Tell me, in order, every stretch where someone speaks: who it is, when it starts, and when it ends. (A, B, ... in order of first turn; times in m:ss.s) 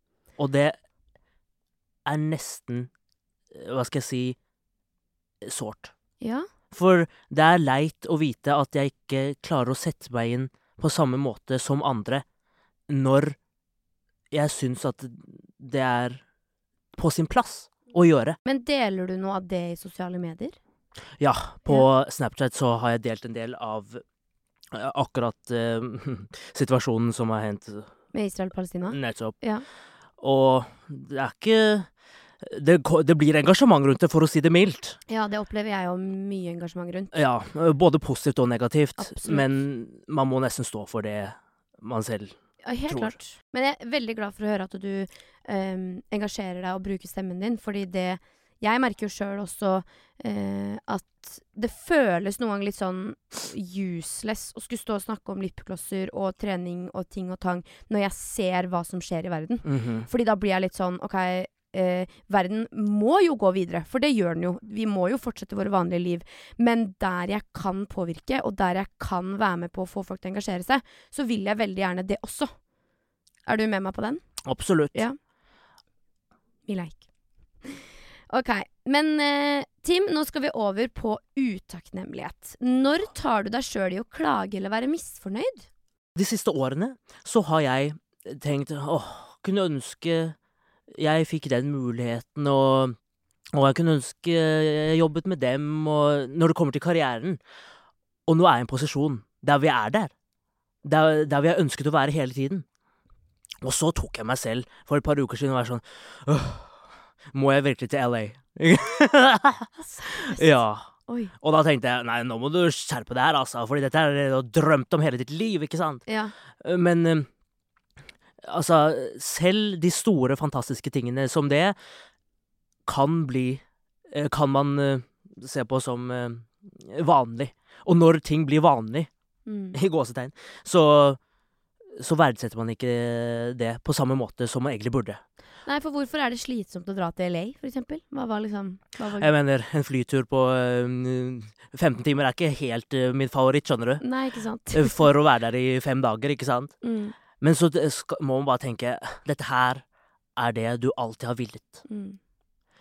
0:00.4-0:00.8 A
0:02.0-0:02.9 A
0:03.5-0:04.4 A
0:05.4-0:05.9 A
0:06.2-0:06.5 B
0:06.7-0:12.2 A
0:12.9-0:13.4 A
0:14.3-0:16.2 A
0:16.9-0:18.4 A
0:18.4-0:20.6 B
0:21.2-0:24.0 A
0:24.7-0:27.9 A
0:28.1-0:29.6 B
0:28.9-0:29.4 A
0:30.2-0:31.9 A
0:32.4-0:35.0 A
0:35.1-0:37.1 B
0:37.1-0:42.4 A
0:39.0-0:39.6 B
0:42.6-1:12.5 B
0:42.9-0:43.1 A
0:59.6-1:00.1 A
1:13.4-1:14.2 B
1:14.4-1:15.0 A
1:16.7-1:17.0 B
1:17.6-1:25.7 B
1:26.2-1:30.4 A
1:30.9-1:33.0 A
1:33.5-1:37.4 A
1:38.3-1:40.1 A
1:40.8-1:42.6 A
1:43.6-1:46.8 A
1:47.3-1:50.9 A
1:49.8-1:51.3 B
1:51.4-1:56.0 A
1:56.1-1:56.3 B
1:56.6-1:57.3 A
1:58.4-2:01.8 A
2:02.8-2:09.1 A
2:09.4-2:09.8 B
2:09.7-2:11.2 A
2:12.0-2:15.2 A
2:15.6-2:19.3 B
2:19.2-2:24.0 A
2:24.0-2:25.1 B
2:24.7-2:26.8 A
2:26.8-2:27.1 B
2:27.4-2:29.8 A
2:30.4-2:31.8 A
2:31.9-2:32.2 B